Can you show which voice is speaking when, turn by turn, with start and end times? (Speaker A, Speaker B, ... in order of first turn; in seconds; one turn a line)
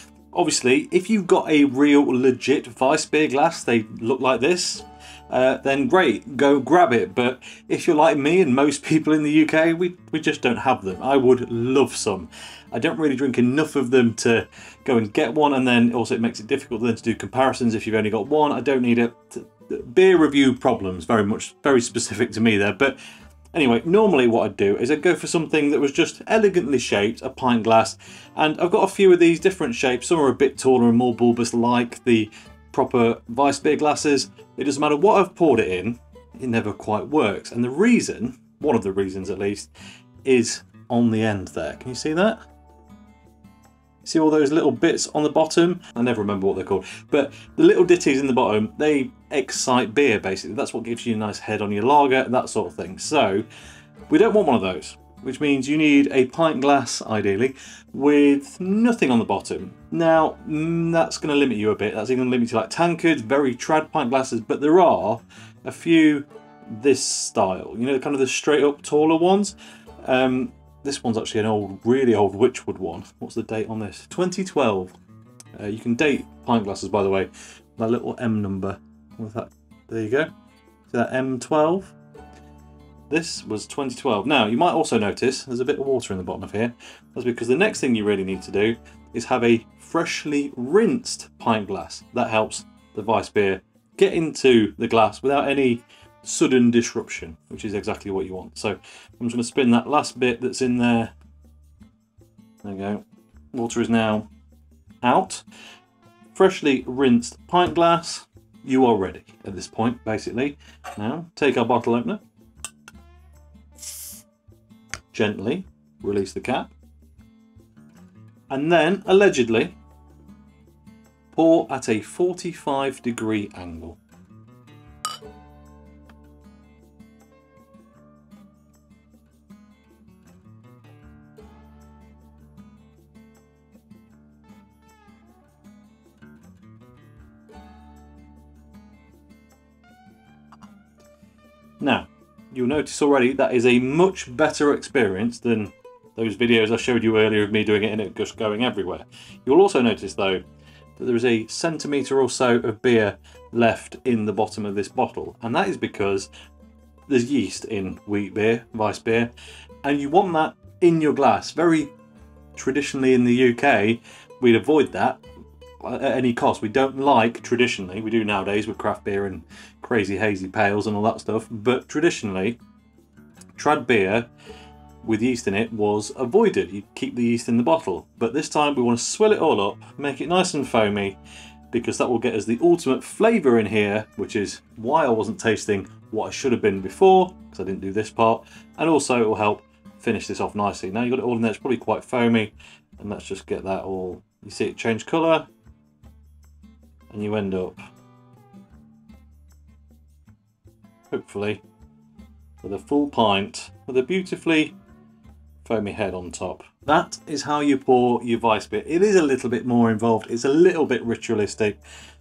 Speaker A: 0.3-23.0
Speaker A: 23.5-39.7
Speaker A: 40.2-42.4
Speaker A: 44.0-53.5
Speaker A: 54.1-74.9
Speaker A: 75.5-80.3
Speaker A: 80.9-81.9
Speaker A: 83.1-101.1
Speaker A: 102.6-104.3
Speaker A: 105.0-105.4
Speaker A: 106.3-112.2
Speaker A: 115.1-116.7
Speaker A: 118.5-119.8
Speaker A: 121.3-124.0
Speaker A: 141.8-150.4
Speaker A: 151.0-156.3
Speaker A: 157.1-159.3
Speaker A: 159.8-161.9
Speaker A: 162.6-165.2
Speaker A: 165.8-172.6
Speaker A: 173.6-174.3
Speaker A: 175.0-181.2
Speaker A: 181.7-195.5
Speaker A: 197.1-197.8
Speaker A: 201.1-201.6
Speaker A: 202.6-204.8
Speaker A: 205.6-211.8